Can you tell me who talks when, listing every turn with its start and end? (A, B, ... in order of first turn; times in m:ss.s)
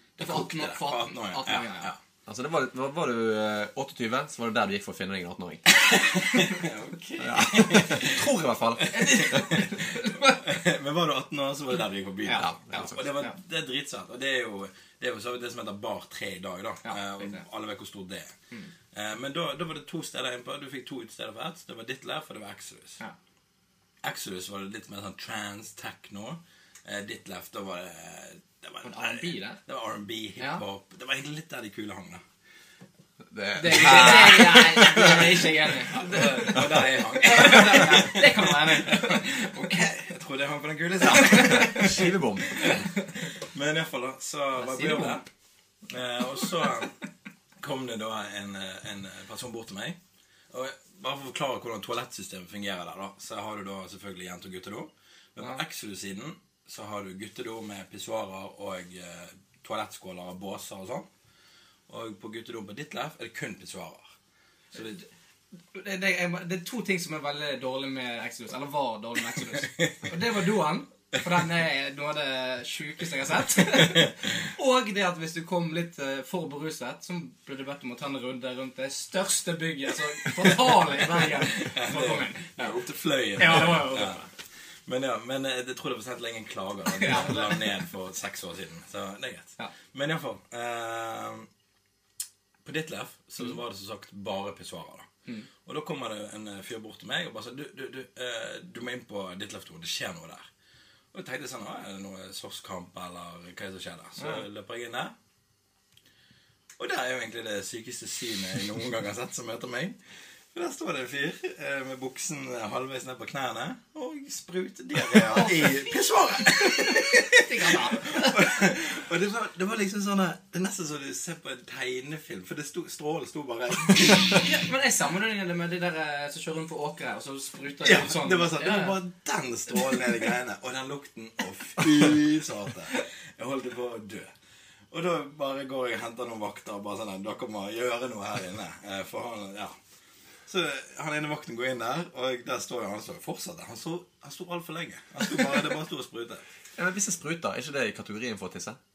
0:00.2-0:02.0 A
0:00.2-0:01.9 B
0:02.2-0:05.6 C
0:05.8-0:08.3 A
0:07.2-0:09.6 C
0:08.8-0:18.3 A
0:08.9-0:10.4 B
0:12.2-0:13.3 B
0:12.3-0:13.0 C
0:16.8-0:17.4 B
0:18.9-0:23.0 A
0:24.0-0:32.2 A
0:28.8-0:29.6 B
0:33.3-0:35.5 C
0:33.5-0:39.5 B
0:33.8-0:34.2 A
0:35.9-0:42.8 A
0:36.5-0:36.8 C
0:41.0-0:42.7 C
0:41.1-0:41.8 B
0:42.5-0:43.1 B
0:43.4-0:45.2 A
0:44.5-0:45.2 B
0:45.9-0:46.9 A
0:47.6-0:50.0 A
0:50.5-1:01.0 A
1:01.9-1:04.0 A
1:04.7-1:05.0 A
1:05.7-1:22.8 B
1:09.6-1:10.0 A
1:21.1-1:24.2 A
1:23.4-1:24.3 B
1:24.9-1:31.5 A
1:26.9-1:27.7 B
1:32.6-1:35.1 A
1:35.6-1:40.5 A
1:41.1-1:45.1 A
1:44.2-1:44.4 B
1:46.8-1:50.0 A
1:50.5-2:04.5 A
1:55.2-1:56.0 B
1:56.6-1:58.4 B
2:04.2-2:09.0 B
2:07.8-2:14.3 A
2:14.9-2:19.7 A
2:20.5-2:26.4 A
2:26.8-2:28.8 C